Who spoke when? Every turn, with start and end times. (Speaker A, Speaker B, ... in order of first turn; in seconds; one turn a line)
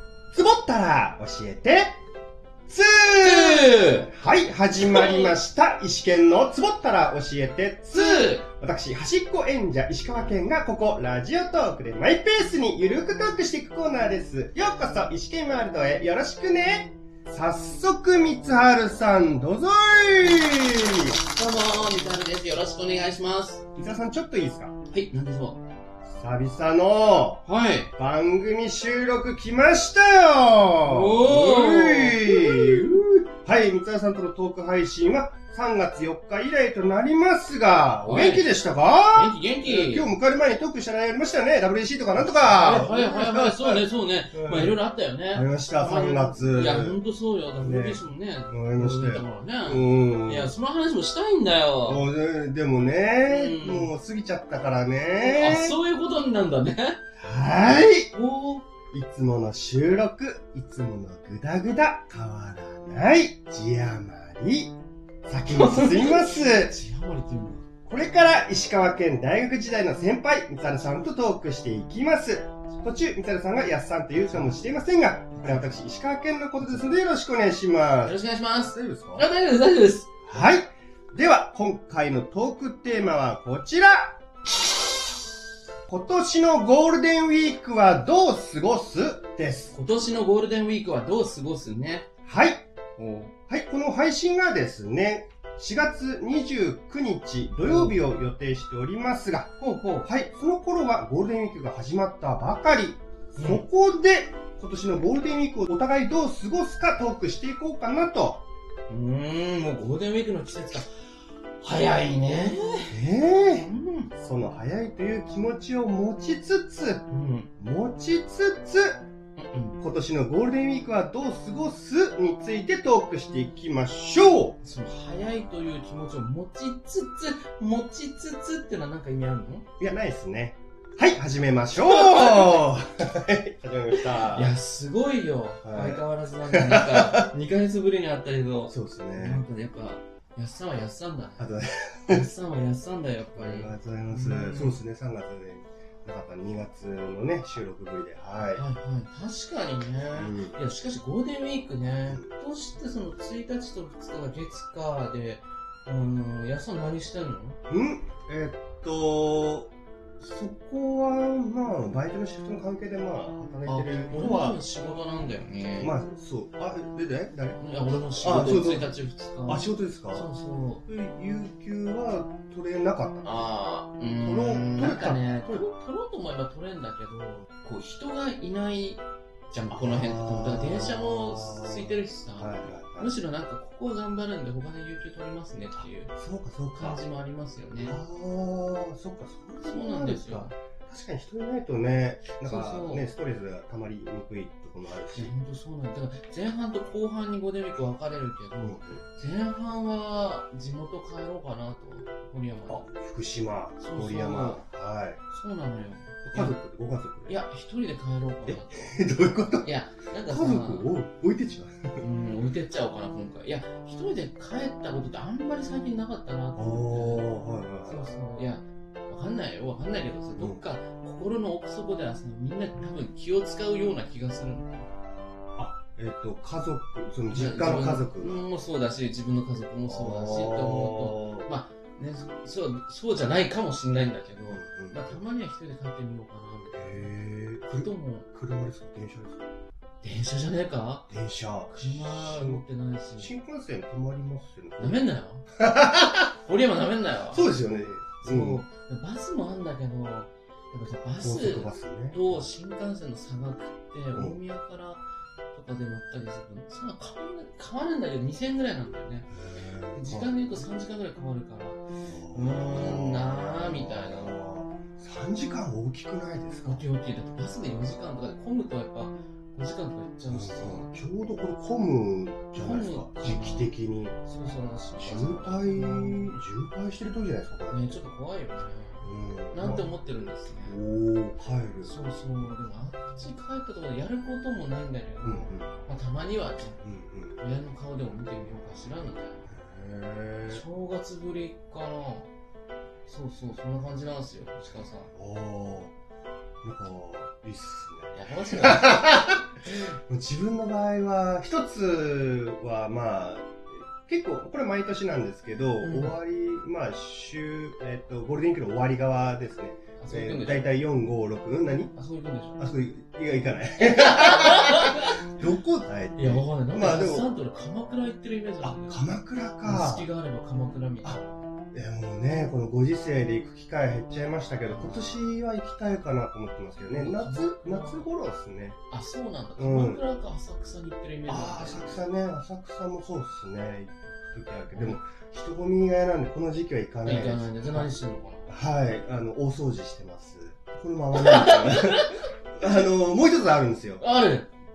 Speaker A: 0.3-1.9
Speaker A: 2.7-21.1
Speaker B: 3.1-4.1
Speaker B: 4.8-5.4
Speaker B: 7.9-8.4
Speaker B: 21.3-23.7
Speaker A: 23.7-24.7
Speaker B: 24.9-25.6
Speaker A: 26.1-27.4
Speaker B: 27.4-27.9
Speaker A: 28.0-44.8
Speaker B: 30.8-33.0
Speaker B: 38.0-38.5
Speaker B: 39.1-40.1
Speaker B: 42.2-52.1
Speaker A: 45.3-47.0
Speaker A: 47.6-50.5
Speaker A: 51.8-55.8
Speaker B: 53.2-53.9
Speaker B: 55.2-57.0
Speaker A: 57.2-58.1
Speaker B: 58.1-58.7
Speaker A: 58.9-64.7
Speaker A: 65.2-66.8
Speaker B: 65.5-67.7
Speaker A: 67.8-79.3
Speaker B: 78.0-80.1
Speaker A: 80.2-84.2
Speaker A: 85.9-89.8
Speaker B: 89.7-92.1
Speaker A: 92.2-92.6
Speaker B: 93.0-93.3
Speaker A: 93.5-108.4
Speaker B: 97.6-98.0
Speaker B: 99.6-100.0
Speaker B: 103.3-103.7
Speaker B: 108.9-110.9
Speaker B: 111.6-112.9
Speaker A: 112.9-117.0
Speaker B: 113.5-114.1
Speaker B: 117.1-117.5
Speaker A: 117.6-119.0
Speaker B: 119.4-119.8
Speaker A: 119.8-124.6
Speaker B: 124.6-129.7
Speaker A: 129.8-134.6
Speaker B: 131.8-132.7
Speaker B: 134.1-141.5
Speaker A: 135.6-137.3
Speaker A: 138.7-139.4
Speaker A: 141.4-142.3
Speaker B: 142.1-144.8
Speaker A: 143.3-148.6
Speaker B: 148.5-157.6
Speaker A: 150.1-150.6
Speaker A: 157.7-164.6
Speaker B: 163.6-165.9
Speaker A: 165.8-167.6
Speaker B: 167.6-170.8
Speaker A: 168.2-168.9
Speaker A: 169.4-170.3
Speaker A: 170.9-173.5
Speaker B: 173.2-186.1
Speaker A: 174.2-175.6
Speaker A: 179.7-183.1
Speaker A: 186.2-187.0
Speaker B: 186.7-188.0
Speaker A: 187.8-195.3
Speaker B: 189.6-190.5
Speaker B: 192.4-193.1
Speaker B: 195.1-202.9
Speaker A: 198.6-199.0
Speaker A: 202.7-205.2
Speaker B: 203.8-204.6
Speaker B: 205.3-206.6
Speaker A: 206.2-207.4
Speaker B: 207.3-208.9
Speaker A: 208.5-209.7
Speaker B: 209.6-210.9
Speaker A: 210.3-212.0
Speaker B: 212.0-217.3
Speaker A: 216.6-218.1
Speaker B: 217.8-224.9
Speaker A: 220.3-220.6
Speaker A: 225.6-228.4
Speaker B: 227.3-237.1
Speaker A: 229.8-231.5
Speaker A: 234.5-235.2
Speaker A: 236.8-239.4
Speaker B: 237.7-238.3
Speaker B: 240.0-241.1
Speaker A: 241.1-242.6
Speaker B: 241.7-243.3
Speaker A: 243.2-245.0
Speaker B: 244.8-245.5
Speaker A: 245.5-246.3
Speaker B: 246.3-247.6
Speaker A: 247.3-248.6
Speaker B: 248.2-259.3
Speaker A: 251.2-252.4
Speaker A: 254.1-254.4
Speaker A: 259.3-260.3
Speaker B: 259.9-261.8
Speaker A: 262.1-266.8
Speaker B: 262.3-264.3
Speaker B: 266.6-270.9
Speaker A: 270.3-274.1
Speaker B: 272.6-276.3
Speaker A: 275.0-278.0
Speaker B: 277.7-280.8
Speaker A: 279.0-279.9
Speaker A: 280.6-281.9
Speaker B: 281.8-286.8
Speaker A: 285.2-285.7
Speaker A: 286.8-287.4
Speaker B: 287.4-289.5
Speaker A: 289.5-290.6
Speaker B: 290.5-292.3
Speaker B: 293.1-295.1
Speaker A: 295.1-295.9
Speaker A: 296.6-299.4
Speaker B: 298.1-299.9
Speaker A: 300.1-311.9
Speaker B: 305.8-306.2
Speaker B: 310.0-310.7
Speaker B: 311.9-312.6
Speaker A: 312.6-317.3
Speaker B: 313.8-315.4
Speaker B: 316.1-319.1
Speaker A: 318.6-320.1
Speaker B: 319.6-321.4
Speaker A: 321.7-328.8
Speaker B: 326.9-328.1
Speaker B: 328.9-332.0
Speaker A: 329.6-330.0
Speaker A: 331.3-337.9
Speaker B: 337.0-338.5
Speaker A: 338.5-344.0
Speaker B: 341.1-342.1
Speaker B: 344.0-344.5